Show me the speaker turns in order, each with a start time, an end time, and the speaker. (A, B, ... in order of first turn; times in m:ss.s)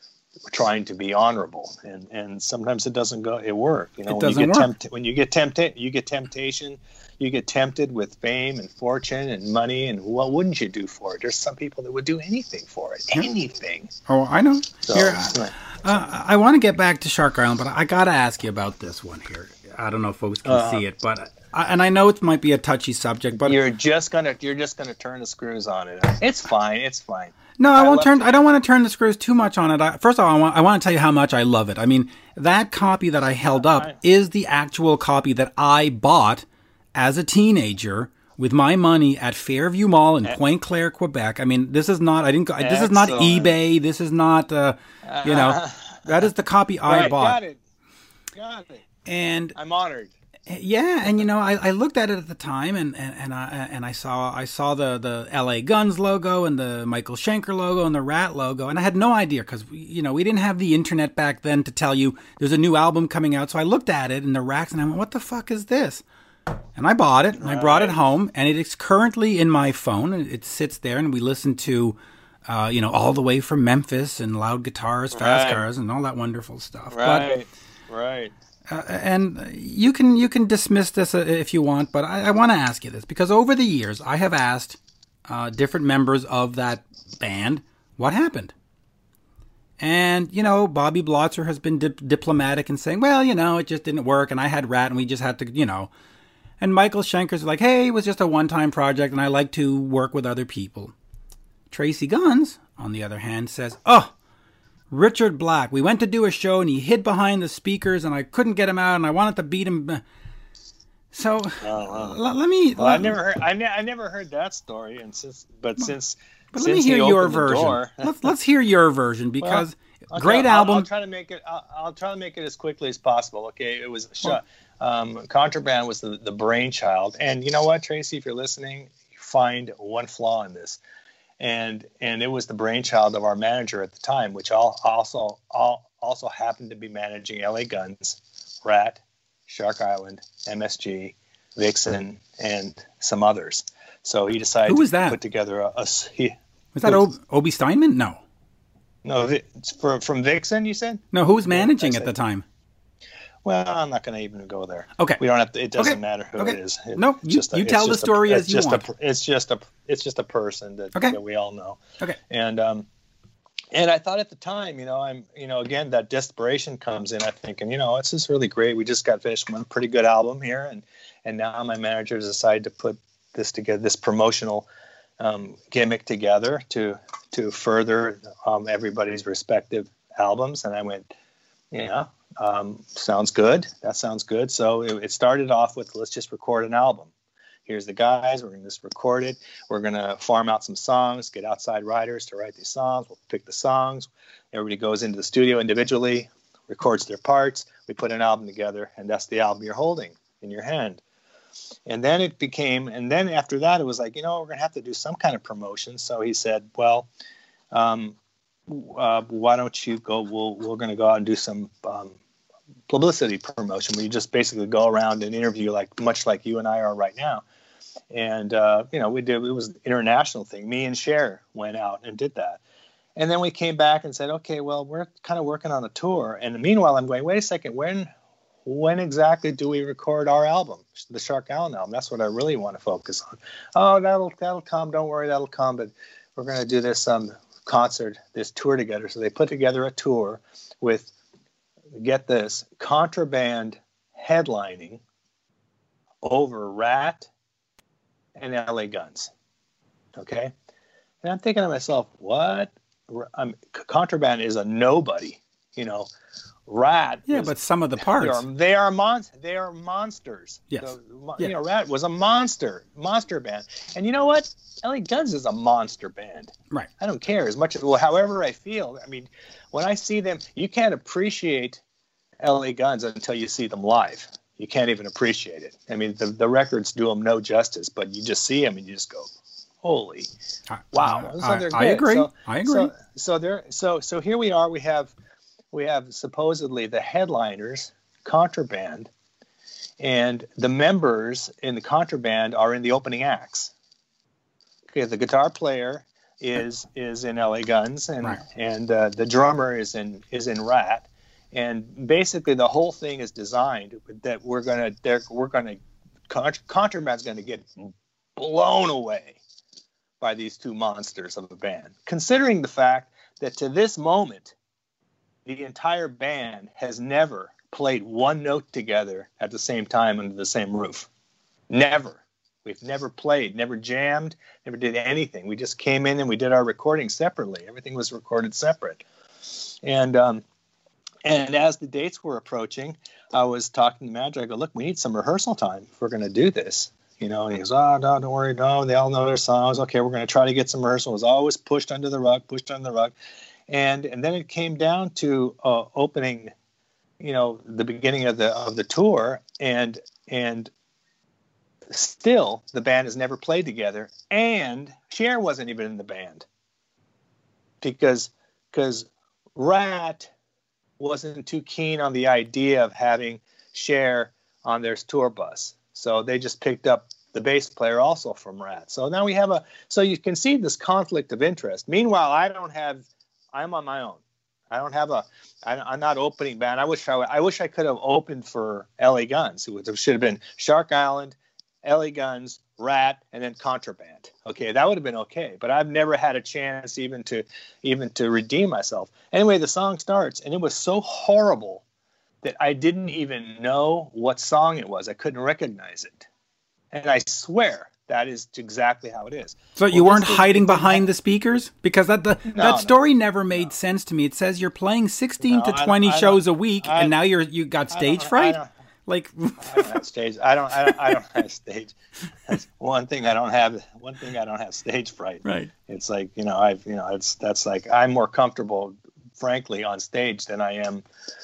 0:00.5-0:13.9 A
0:04.1-0:04.7 B
0:14.1-0:23.6 B
0:14.8-0:16.0 A
0:20.4-0:20.8 A
0:23.3-0:28.4 A
0:27.6-0:36.4 B
0:33.5-0:34.0 A
0:37.0-0:47.4 B
0:42.6-0:43.5 A
0:45.0-0:46.3 A
0:46.9-0:47.6 A
0:48.3-0:48.8 A
0:49.0-0:49.6 B
0:49.6-0:50.1 A
0:50.5-1:06.0 B
1:06.8-1:17.3 B
1:07.4-1:08.0 A
1:15.1-1:15.7 A
1:16.9-1:18.3 A
1:18.7-1:28.5 B
1:29.8-1:35.9 B
1:36.6-1:40.9 B
1:41.7-1:44.1 B
1:44.9-1:50.0 B
1:51.1-1:53.2 B
1:51.6-1:52.2 A
1:52.8-1:58.3 A
1:56.5-2:00.9 B
1:59.4-2:10.8 A
2:11.4-2:27.0 A
2:24.6-2:25.2 B
2:26.7-2:28.2 B
2:29.0-2:32.1 A
2:31.1-2:32.4 B
2:33.4-2:42.8 A
2:35.8-2:38.8 B
2:43.7-2:54.7 A
2:55.2-3:01.1 A
3:01.7-3:07.1 A
3:07.6-3:21.0 A
3:21.9-3:27.1 A
3:27.7-3:32.2 A
3:32.9-3:37.4 A
3:38.1-3:42.6 A
3:43.2-3:48.1 A
3:48.6-4:01.1 A
4:01.9-4:05.0 A
4:06.2-4:07.3 A
4:08.4-4:09.3 A
4:10.2-4:10.5 A
4:11.2-4:16.1 A
4:16.7-4:31.8 A
4:17.3-4:18.4 B
4:20.7-4:21.5 B
4:32.4-4:40.3 A
4:40.7-4:42.9 B
4:40.9-4:45.1 A
4:45.7-4:49.1 A
4:50.0-4:53.7 A
4:54.9-5:05.8 A
5:06.3-5:09.4 A
5:10.2-5:14.5 A
5:15.4-5:21.1 A
5:21.7-5:30.4 A
5:31.2-5:43.1 A
5:43.7-5:46.5 A
5:47.2-5:50.7 A
5:51.9-5:56.4 A
5:57.8-6:00.3 A
6:01.0-6:31.8 A
6:32.4-6:36.3 A
6:36.9-6:41.1 A
6:39.8-6:50.0 B
6:42.4-6:42.9 A
6:45.4-6:47.1 A
6:47.9-6:48.7 A
6:49.6-6:51.9 A
6:52.5-7:01.0 A
6:55.4-6:55.7 B